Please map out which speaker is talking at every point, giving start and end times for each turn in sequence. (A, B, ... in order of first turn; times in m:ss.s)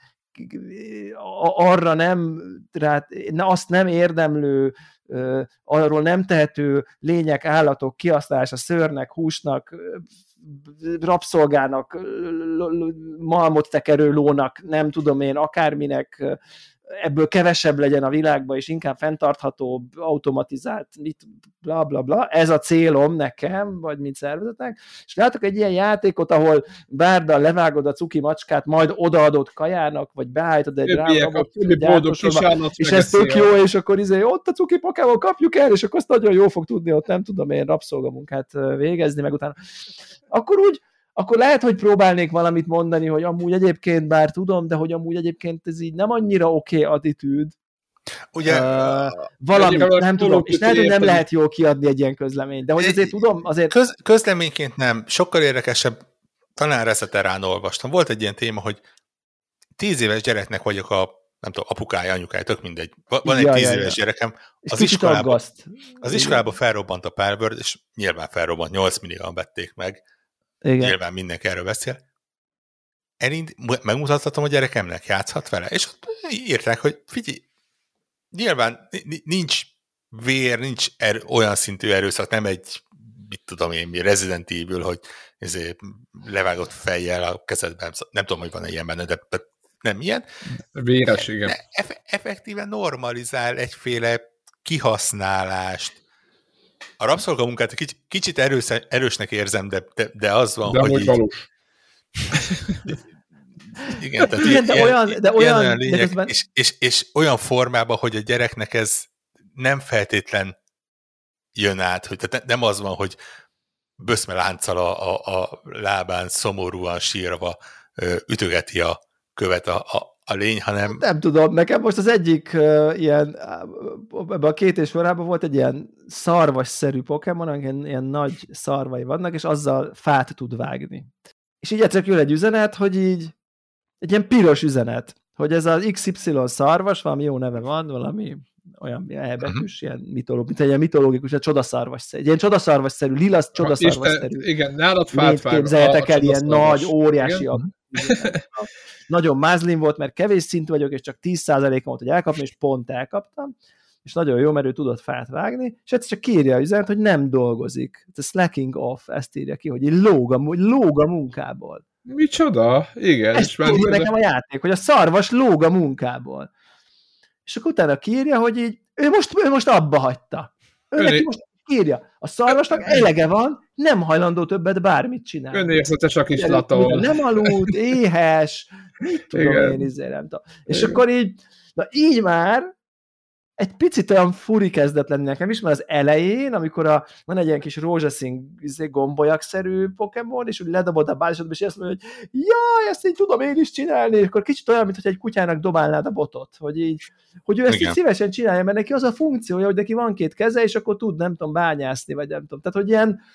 0:00.4-0:39.6 A
0:30.9-0:33.5 B
0:40.3-0:47.6 A
0:48.3-0:49.2 C
0:48.4-0:53.8 A
0:49.5-0:51.2 B
0:52.8-0:53.1 C
0:53.7-0:56.0 C
0:56.6-0:58.8 C
0:59.8-1:05.4 C
1:03.2-1:04.0 A
1:04.6-1:06.4 A
1:06.0-1:10.0 C
1:10.6-1:11.0 A
1:10.8-1:12.0 C
1:13.2-1:17.4 C
1:18.3-1:30.2 C
1:30.7-1:31.6 B
1:31.5-1:36.0 C
1:37.0-1:41.2 C
1:40.7-1:41.4 B
1:42.3-1:43.0 B
1:43.8-1:46.3 A
1:43.9-1:50.6 C
1:51.6-1:53.2 C
1:54.0-2:01.0 C
2:00.9-2:11.1 A
2:11.6-2:13.3 A
2:14.0-2:24.5 A
2:23.6-2:27.5 B
2:25.1-2:33.5 A
2:28.0-2:28.4 B
2:34.0-2:41.8 A
2:42.1-2:44.1 B
2:43.4-2:46.5 A
2:47.5-2:55.8 A
2:51.0-2:51.3 B
2:52.5-2:53.0 B
2:55.5-2:57.8 B
2:56.4-3:02.7 A
2:59.3-2:59.9 B
3:00.7-3:01.0 B
3:03.6-3:23.2 A
3:17.7-3:18.0 C